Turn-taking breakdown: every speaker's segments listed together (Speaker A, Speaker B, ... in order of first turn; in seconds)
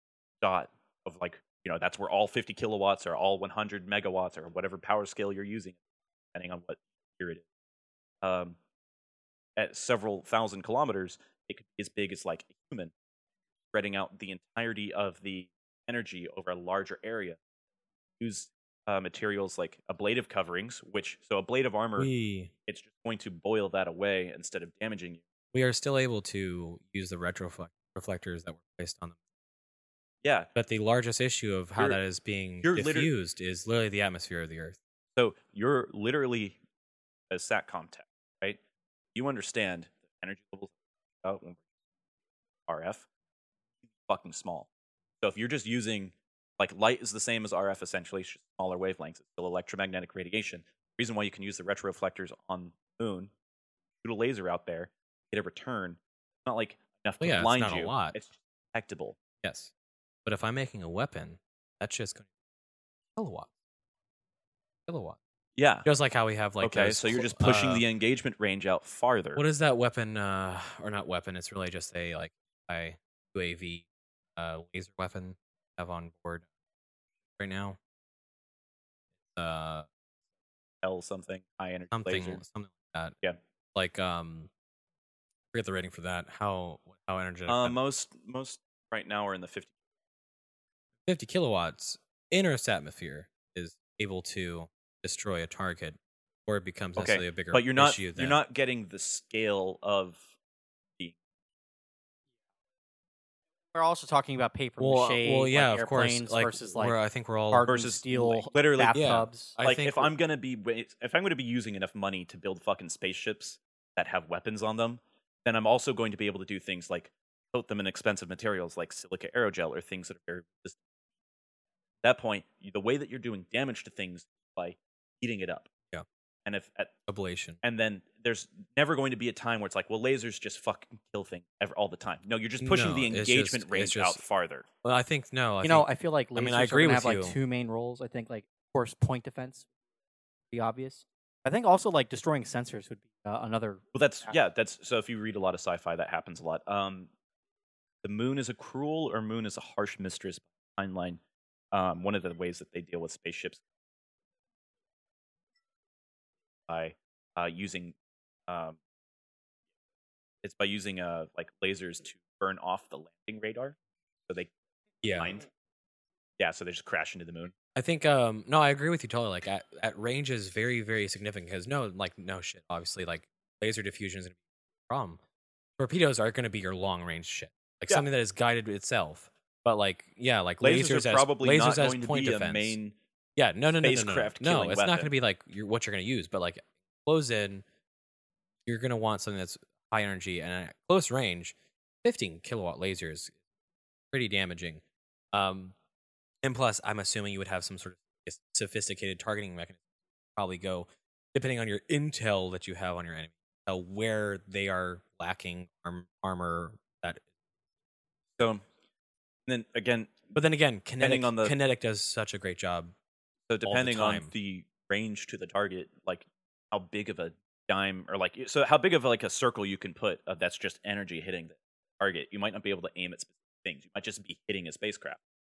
Speaker A: 0.4-5.8, 6.3-7.5, 8.2-8.6, 9.6-12.9, 13.7-17.4, 18.2-22.1, 22.7-25.2, 30.2-30.5, 32.6-33.1, 35.2-36.6, 37.3-38.6, 39.1-41.6, 42.7-43.1, 44.1-44.7, 45.2-53.3, 54.0-59.2, 65.6-65.9, 66.6-69.4, 80.8-82.4, 87.5-89.7, 97.0-100.3, 107.7-120.8, 122.0-125.7, 126.5-126.9, 127.6-134.7, 143.9-147.1, 148.0-151.2, 151.7-153.6, 156.7-157.9, 158.5-158.8, 160.4-163.8, 165.2-165.5, 166.4-167.6, 180.6-183.0, 183.7-185.1, 208.4-208.6, 209.5-210.3, 211.0-211.6, 213.5-225.2
Speaker B: 22.0-22.5, 25.5-29.1, 30.6-34.8, 57.2-58.2, 59.4-59.7, 60.3-62.3, 63.2-63.5, 64.9-65.2, 65.8-67.8, 69.3-73.9, 74.4-76.5, 77.4-77.8, 79.3-79.9, 81.9-83.2, 83.8-84.5, 85.5-87.8, 91.0-98.4, 104.8-107.7, 108.9-110.1, 127.1-127.6, 132.6-134.2, 134.8-137.3, 165.0-165.4, 167.8-174.4, 174.9-175.2, 175.8-182.8, 183.4-187.6, 188.7-193.3, 194.1-194.8, 195.3-195.7, 196.4-199.8, 200.4-207.2, 210.3-212.9, 213.7-214.3
Speaker C: 103.7-107.0, 107.5-109.6, 135.6-139.7, 140.5-143.8